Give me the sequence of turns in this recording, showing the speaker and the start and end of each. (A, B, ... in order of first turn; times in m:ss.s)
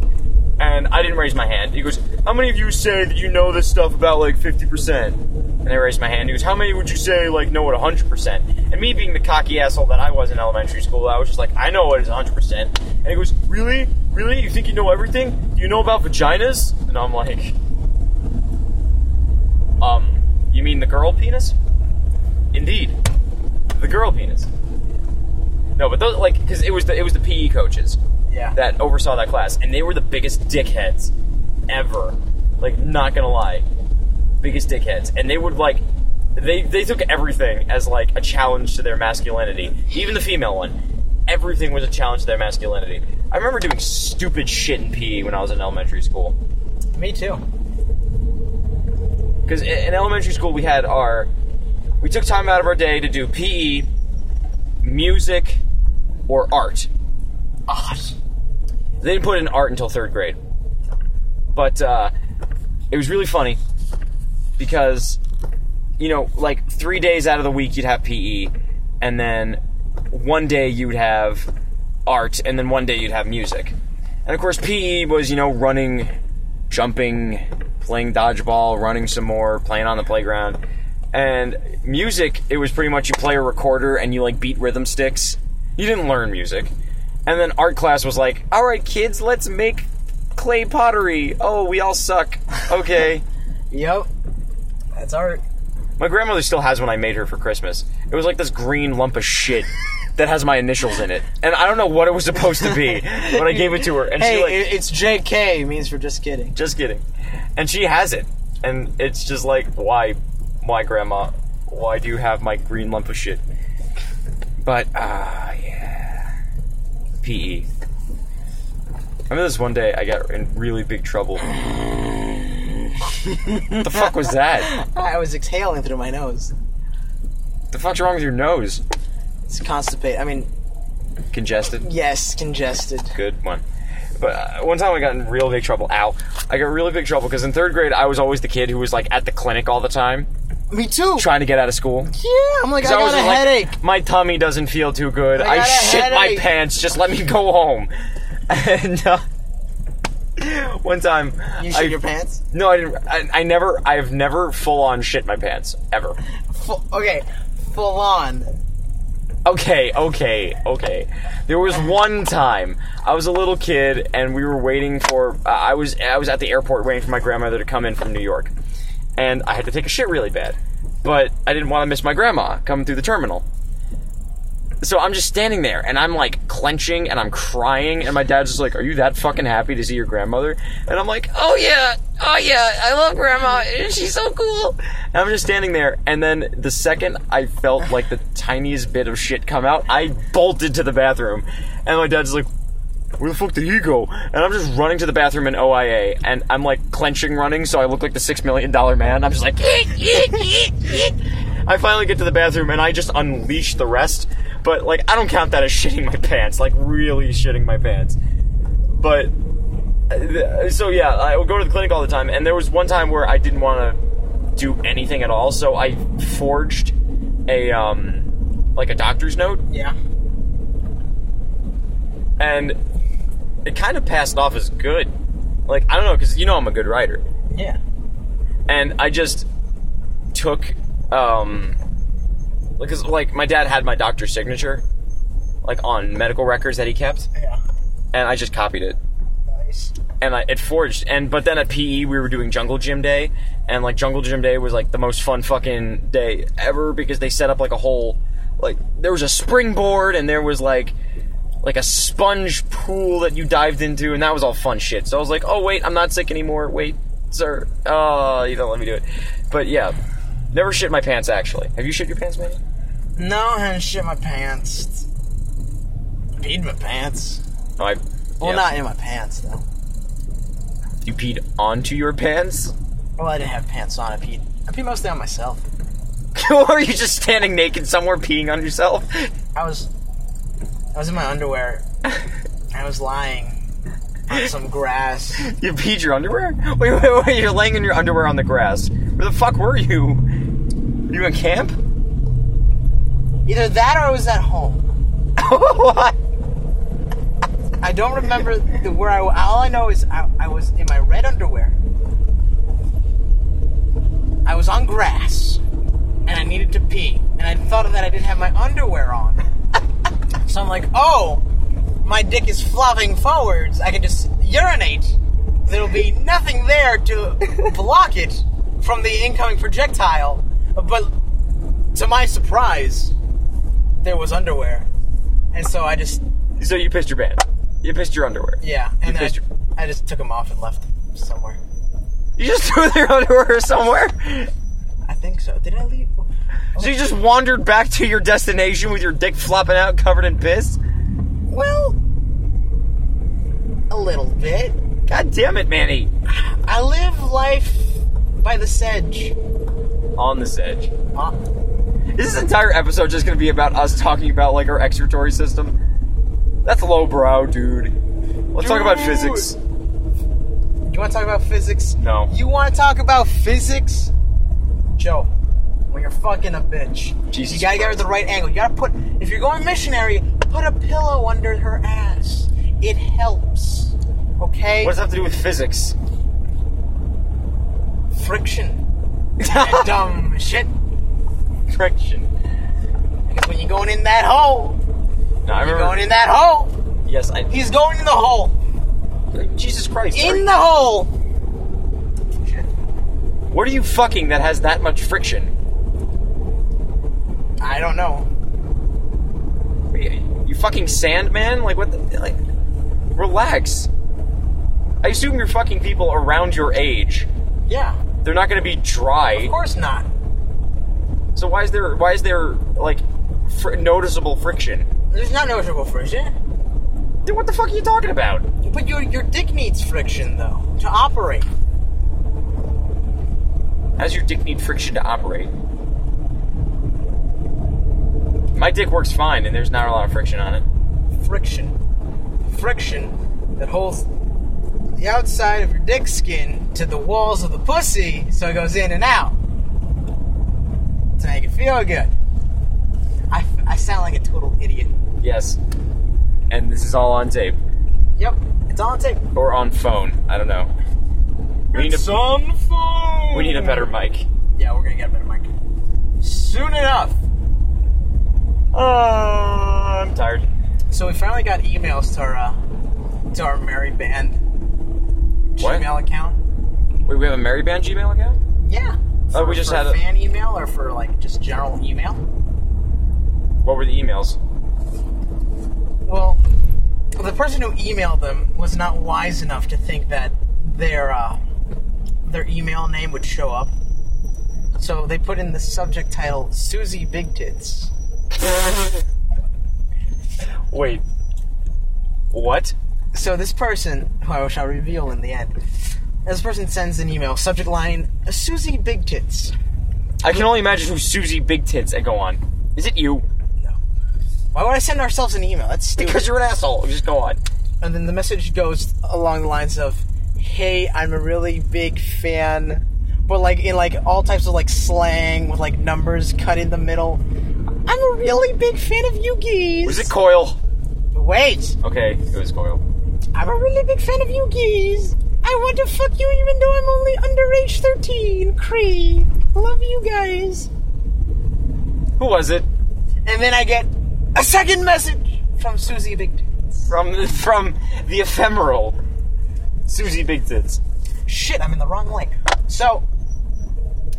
0:00.6-0:17.6 A
0:19.8-0:21.5 A
0:22.5-0:22.9 A
0:23.8-0:24.5 A
0:25.8-0:28.0 A
0:28.3-0:28.6 B
0:28.5-0:31.1 A
0:31.7-0:33.6 A
0:34.4-0:35.8 A
0:36.4-0:40.8 A
0:41.3-0:46.4 A
0:46.9-0:47.4 B
0:49.4-0:51.3 A
0:52.0-0:53.9 A
0:54.8-0:55.6 A
0:56.3-0:56.9 A
0:57.7-0:58.1 B
0:59.0-1:00.4 A
1:01.5-1:02.1 A
1:02.9-1:03.6 A
1:04.6-1:05.2 A
1:06.0-1:11.5 A
1:12.0-1:13.7 A
1:14.2-1:16.1 A
1:16.7-1:20.6 A
1:21.1-1:26.7 A
1:27.2-1:33.2 A
1:33.7-1:34.1 B
1:35.0-1:35.4 B
1:36.0-1:44.7 A
1:43.0-1:46.6 B
1:46.6-1:47.0 A
1:47.6-1:53.4 A
1:54.6-1:56.3 A
1:57.2-1:57.7 A
1:59.3-2:01.6 A
2:03.3-2:06.5 B
2:03.7-2:04.7 A
2:07.7-2:08.8 A
2:09.5-2:10.5 B
2:11.3-2:11.8 A
2:11.8-2:13.1 B
2:13.1-2:13.6 A
2:14.2-2:20.3 A
2:20.7-2:21.3 B
2:21.2-2:22.1 A
2:22.1-2:23.8 B
2:22.8-2:27.9 A
2:25.3-2:26.5 B
2:28.5-2:29.2 A
2:30.4-2:32.0 A
2:31.6-2:32.4 B
2:32.5-2:36.2 A
2:36.5-2:38.6 B
2:39.4-2:48.5 A
2:49.2-2:53.4 A
2:54.8-3:12.5 A
3:13.2-3:28.2 A
3:28.9-3:29.3 A
3:30.1-3:34.0 A
3:34.6-3:36.9 A
3:37.5-3:39.6 A
3:39.7-3:40.0 B
3:42.4-3:42.8 A
3:43.6-3:45.1 A
3:45.7-3:47.2 A
3:47.5-3:47.8 B
3:48.7-3:49.4 A
3:50.3-3:51.8 A
3:52.8-3:54.8 A
3:55.6-3:57.3 A
3:57.3-3:57.6 B
3:58.1-3:59.0 A
3:59.5-3:59.9 B
4:00.2-4:10.9 A
4:11.6-4:19.9 A
4:20.5-4:22.6 A
4:23.2-4:25.1 B
4:26.4-4:27.4 B
4:27.8-4:28.7 A
4:28.4-4:29.6 B
4:31.0-4:32.7 A
4:33.2-4:35.6 B
4:36.3-4:39.3 A
4:39.5-4:39.9 B
4:40.9-4:41.8 B
4:42.7-4:43.6 B
4:44.3-4:45.4 B
4:45.4-4:50.2 A
4:51.1-4:51.8 A
4:53.4-4:54.8 B
4:55.4-4:56.2 A
4:57.8-5:01.8 B
5:04.4-5:05.6 B
5:06.2-5:09.4 B
5:10.4-5:11.4 B
5:12.0-5:21.1 B
5:21.9-5:23.1 B
5:24.0-5:24.9 B
5:25.5-5:26.2 B
5:26.6-5:29.4 A
5:28.6-5:31.6 B
5:32.4-5:34.5 A
5:35.0-5:37.0 B
5:36.8-5:40.8 A
5:41.5-5:42.0 B
5:43.9-5:44.8 B
5:45.1-5:46.1 A
5:46.3-5:49.4 B
5:50.2-5:50.9 A
5:52.1-5:55.8 A
5:56.6-5:57.9 A
5:58.5-5:59.6 A
5:58.6-5:59.5 B
6:00.9-6:04.1 B
6:02.0-6:02.3 A
6:05.0-6:05.3 B
6:05.9-6:15.0 B
6:07.3-6:08.0 A
6:14.8-6:16.0 A
6:18.1-6:18.8 B
6:19.4-6:19.9 A
6:19.4-6:20.7 B
6:21.7-6:22.3 A
6:23.3-6:24.8 B
6:25.4-6:26.0 A
6:25.5-6:26.7 B
6:27.0-6:27.5 A
6:27.5-6:28.6 B
6:29.3-6:30.4 A
6:30.1-6:31.1 B
6:32.4-6:32.7 B
6:33.5-6:35.5 A
6:37.6-6:38.3 B
6:39.9-6:42.4 A
6:43.1-6:43.9 A
6:45.0-6:47.3 A
6:47.7-6:48.0 B
6:48.2-6:49.5 A
6:49.3-6:50.1 B
6:51.4-6:54.9 A
6:55.1-6:56.3 B
6:57.2-6:58.4 A
6:58.6-7:01.5 B
7:04.0-7:05.5 A
7:08.5-7:10.6 A
7:11.2-7:11.8 B
7:12.4-7:14.0 B
7:15.0-7:19.3 B
7:21.2-7:22.1 B
7:23.3-7:24.9 B
7:25.2-7:25.6 A
7:26.5-7:27.6 A
7:28.2-7:29.2 B
7:29.3-7:30.7 A
7:31.7-7:32.1 A
7:31.7-7:33.9 B
7:33.3-7:34.3 A
7:34.6-7:35.5 B
7:36.2-7:37.2 B
7:38.7-7:40.4 A
7:40.9-7:42.6 B
7:43.3-7:44.4 B
7:45.6-7:46.4 B
7:45.6-7:45.8 A
7:47.0-7:48.4 A
7:48.6-7:52.2 B
7:49.3-7:50.0 A
7:53.6-7:54.4 A
7:56.0-7:56.4 B
7:57.2-8:01.4 B
8:02.2-8:03.7 B
8:04.8-8:07.9 B
8:08.4-8:09.0 A
8:10.7-8:11.0 A
8:12.3-8:12.7 A
8:13.1-8:15.6 B
8:16.2-8:19.5 B
8:20.2-8:23.2 A
8:24.5-8:26.3 B
8:26.0-8:27.4 A
8:27.8-8:37.2 B
8:37.8-8:40.1 B
8:39.8-8:40.6 A
8:41.1-8:41.8 B
8:41.8-8:42.8 A
8:43.4-8:50.7 B
8:52.2-8:52.7 A
8:53.2-8:56.9 B
8:56.9-8:59.0 A
8:59.9-9:00.8 A
9:01.3-9:03.0 B